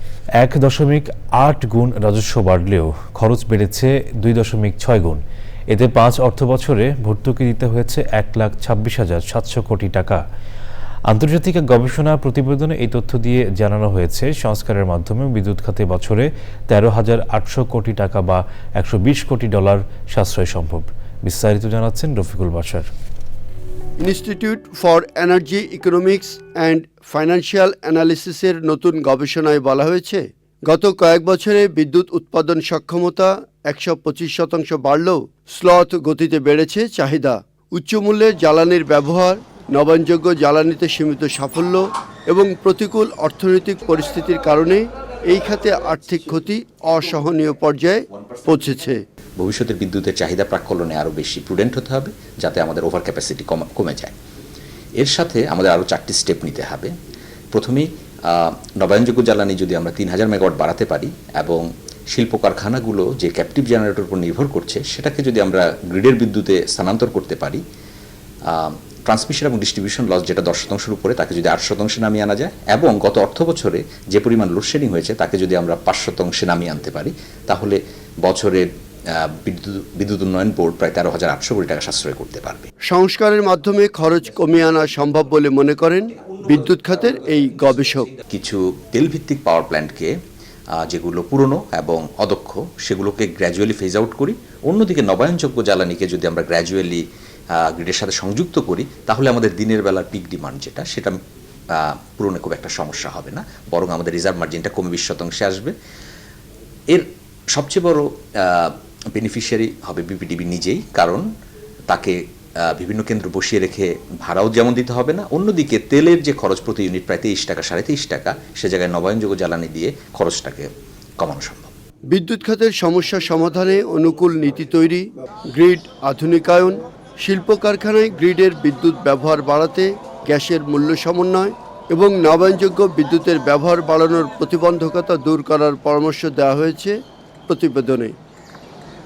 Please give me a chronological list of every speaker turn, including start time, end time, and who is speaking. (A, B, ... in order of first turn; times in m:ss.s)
0:00.4-0:10.2 A
0:11.1-0:22.9 A
0:24.0-0:49.0 B
0:49.4-0:54.1 C
0:55.0-0:56.9 C
0:57.5-1:07.6 C
1:08.5-1:22.7 C
1:22.9-1:28.2 B
1:28.3-1:30.1 C
1:30.8-1:37.0 C
1:37.5-1:41.2 C
1:41.7-1:45.7 C
1:46.9-1:51.2 C
1:51.9-2:00.7 C
2:01.2-2:01.7 C
2:02.1-2:16.9 B
2:17.5-2:18.1 B